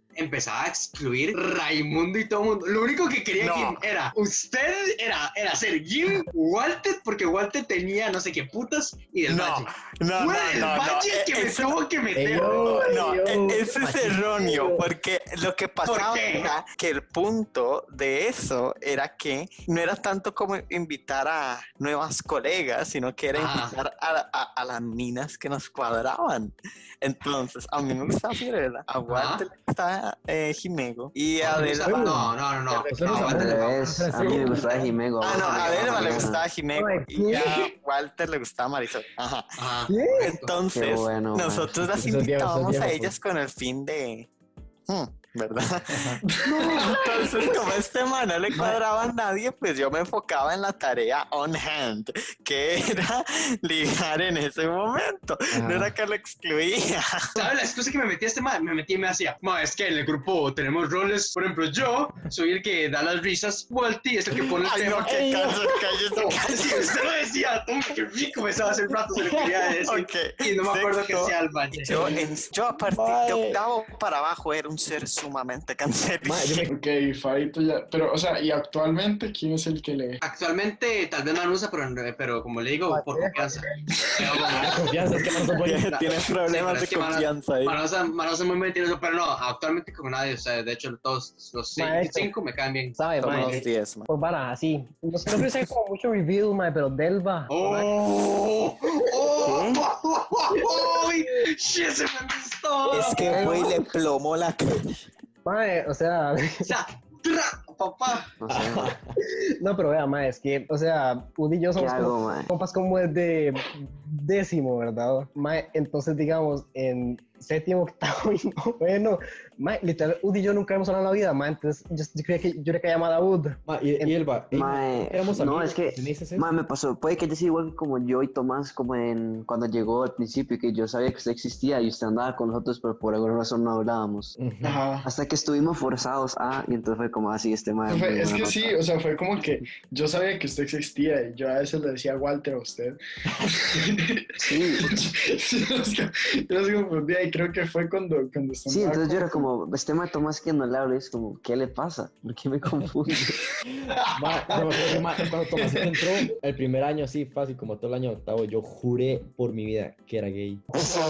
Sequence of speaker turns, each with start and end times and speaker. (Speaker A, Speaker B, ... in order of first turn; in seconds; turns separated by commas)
Speaker A: 0.1-12.9, Speaker B: 3.4-3.8, Speaker B: 9.3-11.8, Speaker C: 12.1-14.9, Speaker B: 12.4-32.2, Speaker A: 15.8-16.5, Speaker A: 23.3-23.7, Speaker A: 29.1-29.4, Speaker A: 31.4-34.6, Speaker C: 31.5-32.3, Speaker C: 32.9-34.9, Speaker D: 33.1-36.4, Speaker B: 35.2-44.3, Speaker A: 35.2-36.3, Speaker E: 36.7-37.7, Speaker A: 39.6-40.5, Speaker E: 39.9-40.4, Speaker D: 40.7-41.8, Speaker C: 41.9-43.1, Speaker B: 44.9-57.4, Speaker C: 45.9-46.2, Speaker F: 46.3-47.3, Speaker C: 55.5-55.9, Speaker A: 57.4-65.3, Speaker B: 64.6-67.0, Speaker C: 65.0-65.7, Speaker A: 66.1-72.2, Speaker B: 69.8-76.7, Speaker C: 72.9-73.6, Speaker C: 76.2-76.7, Speaker F: 76.7-80.2, Speaker A: 80.2-85.0, Speaker E: 82.9-83.7, Speaker C: 84.5-85.9, Speaker B: 85.5-87.8, Speaker A: 85.6-93.6, Speaker E: 91.8-92.3, Speaker E: 93.0-97.9, Speaker B: 93.2-94.1, Speaker A: 97.5-103.7, Speaker D: 99.4-99.8, Speaker B: 102.9-104.9, Speaker E: 105.4-106.7, Speaker A: 106.6-108.3, Speaker D: 108.4-109.0, Speaker C: 108.5-109.1, Speaker E: 109.2-124.1, Speaker D: 111.7-112.5, Speaker C: 123.7-126.5, Speaker D: 124.5-134.4, Speaker C: 134.4-134.8, Speaker F: 134.6-135.1, Speaker D: 135.0-138.8, Speaker F: 137.9-149.5, Speaker D: 144.4-144.9, Speaker D: 148.7-153.4, Speaker F: 153.9-156.0, Speaker C: 154.1-160.6